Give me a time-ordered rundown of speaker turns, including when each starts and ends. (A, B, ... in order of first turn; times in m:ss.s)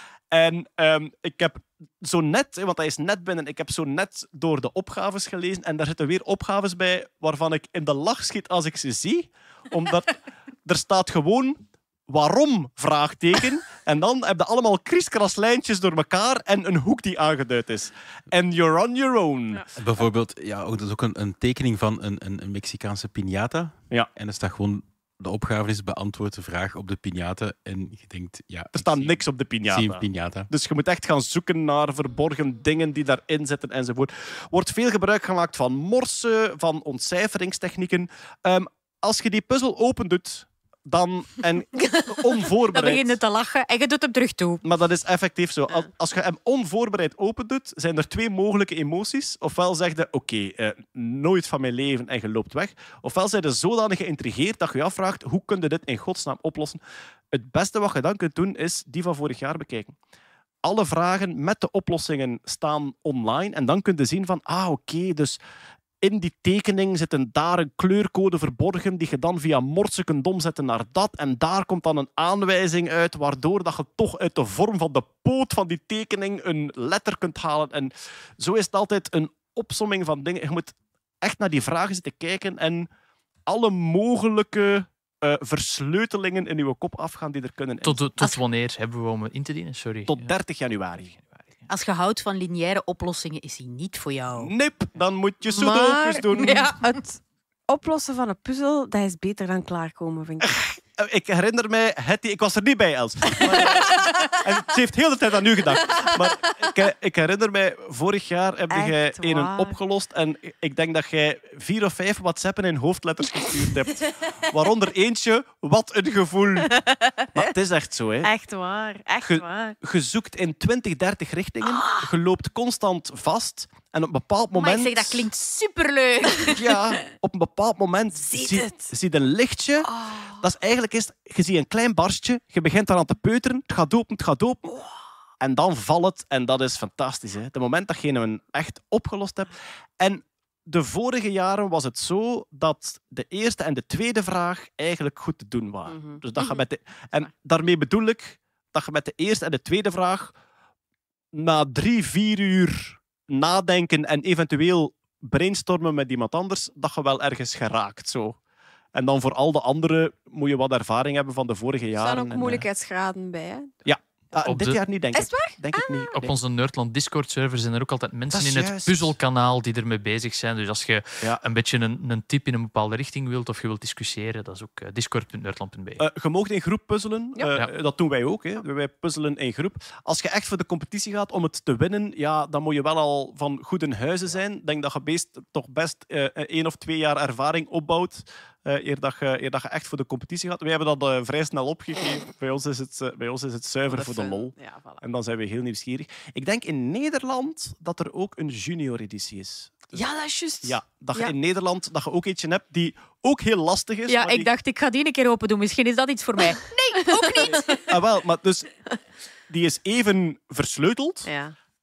0:00.3-0:19.7 A
0:19.8-0:30.5 B
0:28.8-0:43.2 A
0:42.7-0:44.6 C
0:44.6-0:56.8 A
0:57.3-0:59.9 A
1:00.6-1:05.4 A
1:06.0-1:22.9 A
1:23.5-1:28.1 A
1:27.8-1:30.3 D
1:30.1-1:31.2 A
1:31.7-1:34.5 C
1:34.4-1:36.6 A
1:35.5-1:40.6 E
1:40.5-1:56.7 A
1:43.3-1:44.0 E
1:48.7-1:49.8 E
1:56.6-1:57.5 E
1:57.3-1:58.3 A
1:58.2-1:59.8 E
1:59.2-2:05.3 A
2:01.6-2:02.1 C
2:04.5-2:06.7 C
2:06.6-2:14.7 A
2:08.2-2:08.6 C
2:08.6-2:08.9 E
2:09.9-2:10.4 E
2:15.4-2:30.3 A
2:25.9-2:26.6 E
2:31.3-2:38.4 A
2:39.0-2:42.6 A
2:41.9-2:43.7 E
2:43.8-2:46.3 A
2:44.4-2:44.8 D
2:45.1-2:46.1 E
2:46.1-2:56.0 D
2:48.3-2:49.1 A
2:56.0-3:20.0 A
3:13.9-3:15.0 E
3:19.9-3:21.3 E
3:20.6-3:24.5 A
3:24.1-3:27.8 C
3:27.0-3:27.9 E
3:27.9-3:28.8 A
3:29.5-3:31.3 A
3:31.2-3:31.6 E